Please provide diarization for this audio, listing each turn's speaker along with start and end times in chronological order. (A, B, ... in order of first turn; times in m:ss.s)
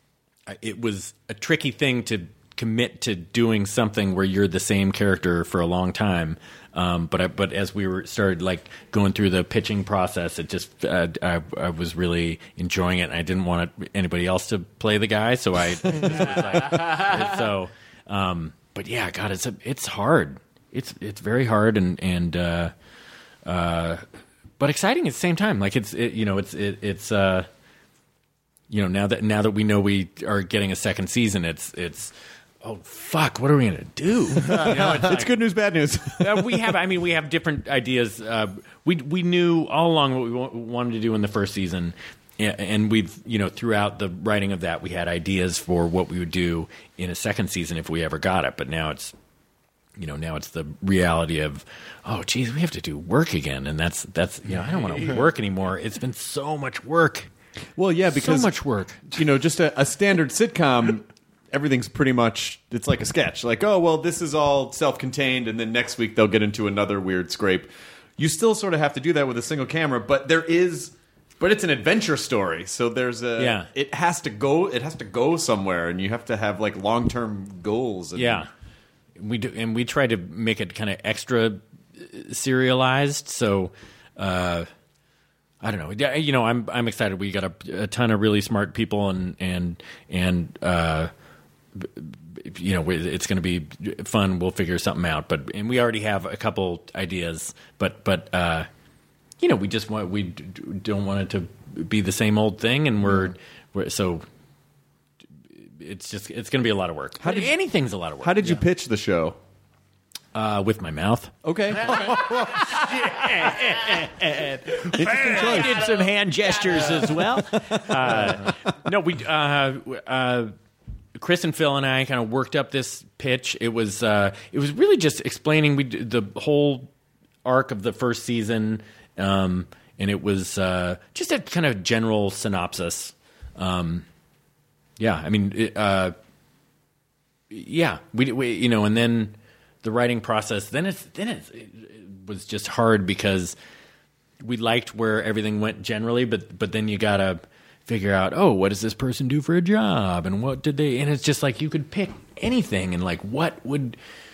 0:00.5-0:22.7 A
0:23.5-0:24.0 A
0:24.6-0:27.5 A
0:28.7-0:35.3 A
0:34.5-0:36.6 B
0:36.2-0:49.1 A
0:50.0-0:57.3 A
0:57.8-0:58.5 B
0:58.1-0:59.0 A
0:59.1-1:18.5 B
1:13.4-1:13.7 A
1:18.2-1:18.5 A
1:19.2-1:24.7 A
1:25.6-1:31.1 A
1:31.8-1:38.7 A
1:39.4-1:44.3 A
1:45.6-1:48.6 A
1:47.2-1:47.6 B
1:48.2-1:49.4 B
1:50.4-2:00.5 A
1:51.4-1:52.3 B
1:54.9-1:55.9 B
1:56.9-1:58.5 B
2:01.2-2:06.9 A
2:07.4-2:14.1 A
2:15.0-2:16.2 A
2:17.5-2:23.6 A
2:24.4-2:34.0 A